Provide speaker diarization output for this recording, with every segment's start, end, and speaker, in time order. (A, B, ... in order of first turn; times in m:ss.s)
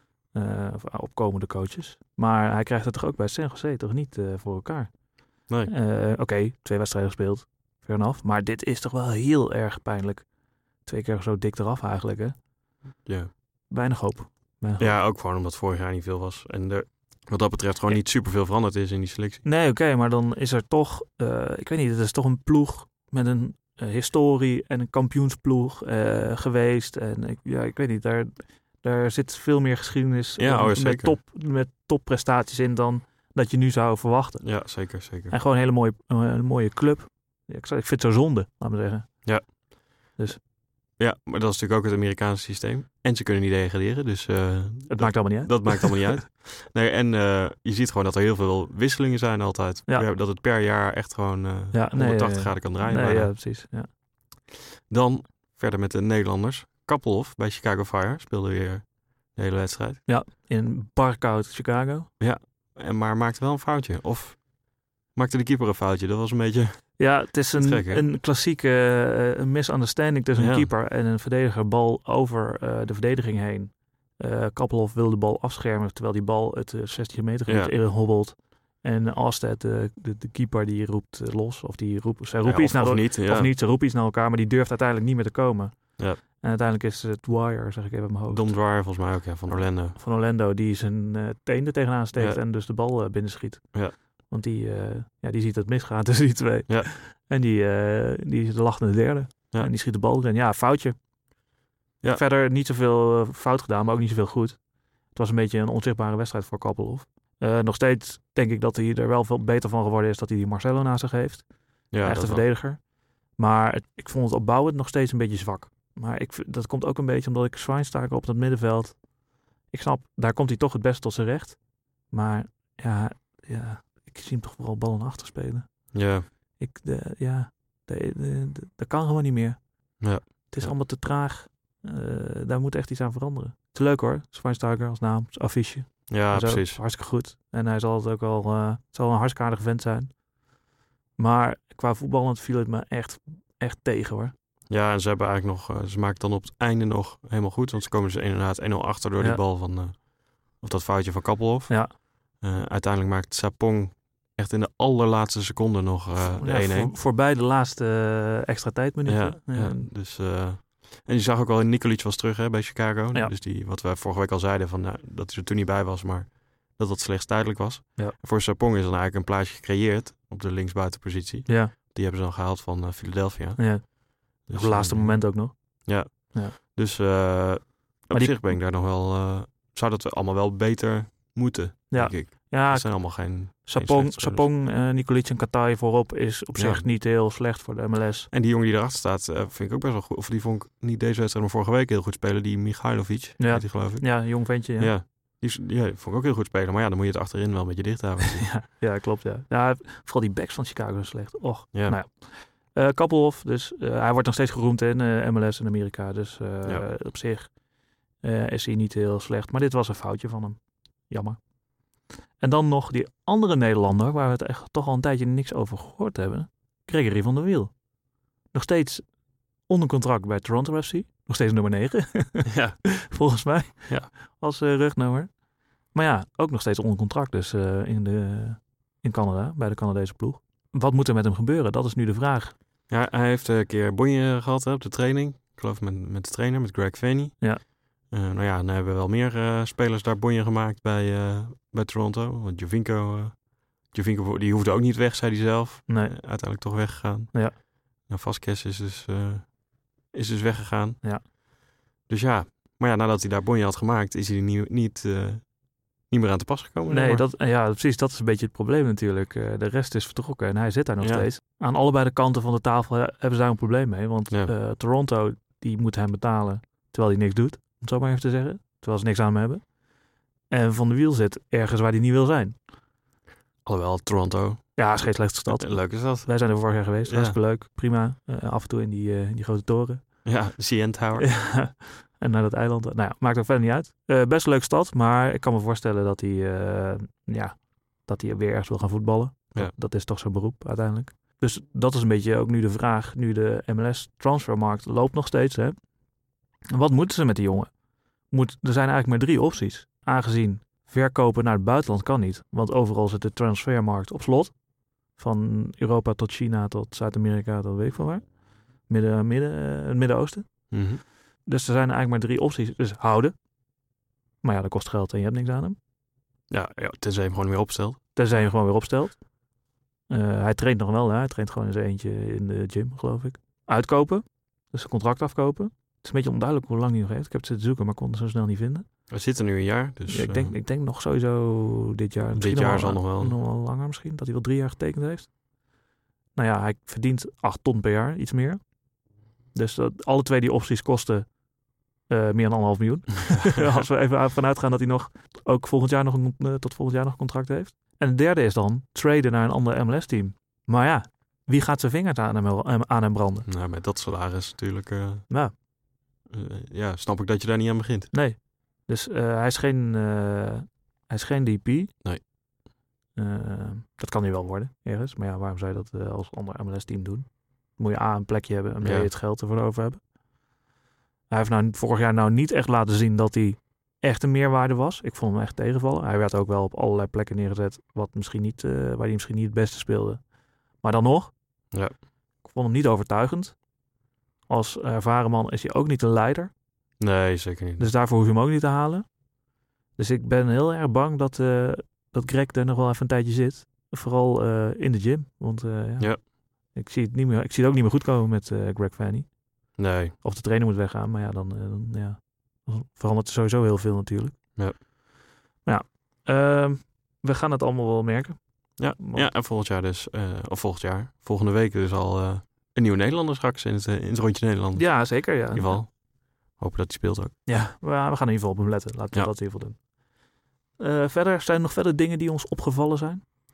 0:00.3-0:12.4 A
0:13.0-0:13.3 B
0:13.7-0:15.0 A
0:14.8-0:19.4 B
0:19.4-0:39.6 A
0:30.4-0:31.2 B
0:34.4-0:35.3 B
0:39.2-0:39.5 B
0:41.0-0:53.4 B
0:44.9-0:46.2 A
0:51.7-0:53.9 A
0:54.9-1:00.0 B
1:00.1-1:02.1 A
1:02.2-1:08.1 B
1:07.0-1:28.8 A
1:10.4-1:10.7 B
1:17.5-1:17.7 B
1:22.4-1:23.5 B
1:28.3-1:30.0 B
1:29.5-1:41.0 A
1:42.1-1:59.1 A
1:51.9-1:52.4 B
1:59.7-2:20.2 A
2:05.9-2:06.3 B
2:10.0-2:10.7 B
2:16.1-2:16.8 B
2:21.2-2:24.3 A
2:24.7-2:36.9 B
2:36.4-2:39.9 A
2:39.0-3:04.5 B
2:51.5-2:51.7 A
2:53.6-2:56.6 A
2:58.1-2:58.6 A
3:01.9-3:08.3 A
3:06.6-3:06.9 B
3:08.3-3:18.7 B
3:13.4-3:15.0 A
3:18.4-3:27.6 A
3:21.7-3:22.0 B
3:28.2-3:37.9 A
3:38.5-3:52.5 A
3:42.5-3:43.0 B
3:52.9-4:11.4 B
4:05.9-4:06.2 A
4:12.1-4:17.3 B
4:16.9-4:29.8 A
4:21.0-4:21.3 B
4:30.5-4:32.6 A
4:33.6-4:37.4 B
4:34.8-4:40.4 A
4:40.2-4:41.4 B
4:41.2-4:55.9 A
4:56.7-4:57.7 A
4:58.3-5:13.3 A
5:10.7-5:11.0 B
5:14.4-5:15.8 A
5:16.5-5:18.0 B
5:18.2-5:19.2 A
5:20.1-5:28.9 A
5:29.1-5:30.6 B
5:30.1-5:35.4 A
5:32.4-5:33.4 B
5:36.4-5:38.8 A
5:39.5-5:41.4 A
5:42.1-5:53.5 A
5:53.5-5:55.3 B
5:55.3-5:55.5 A
5:56.3-5:58.1 B
5:58.1-6:01.9 A
6:03.2-6:10.1 A
6:08.8-6:09.1 B
6:11.3-6:21.4 A
6:22.4-6:23.6 A
6:24.5-6:26.5 A
6:27.0-6:27.9 B
6:27.8-6:29.2 A
6:30.0-6:44.4 A
6:39.8-6:40.2 B
6:45.6-6:49.3 A
6:48.8-6:57.4 B
6:54.8-6:55.8 A
6:57.5-6:59.9 A
7:00.8-7:03.2 A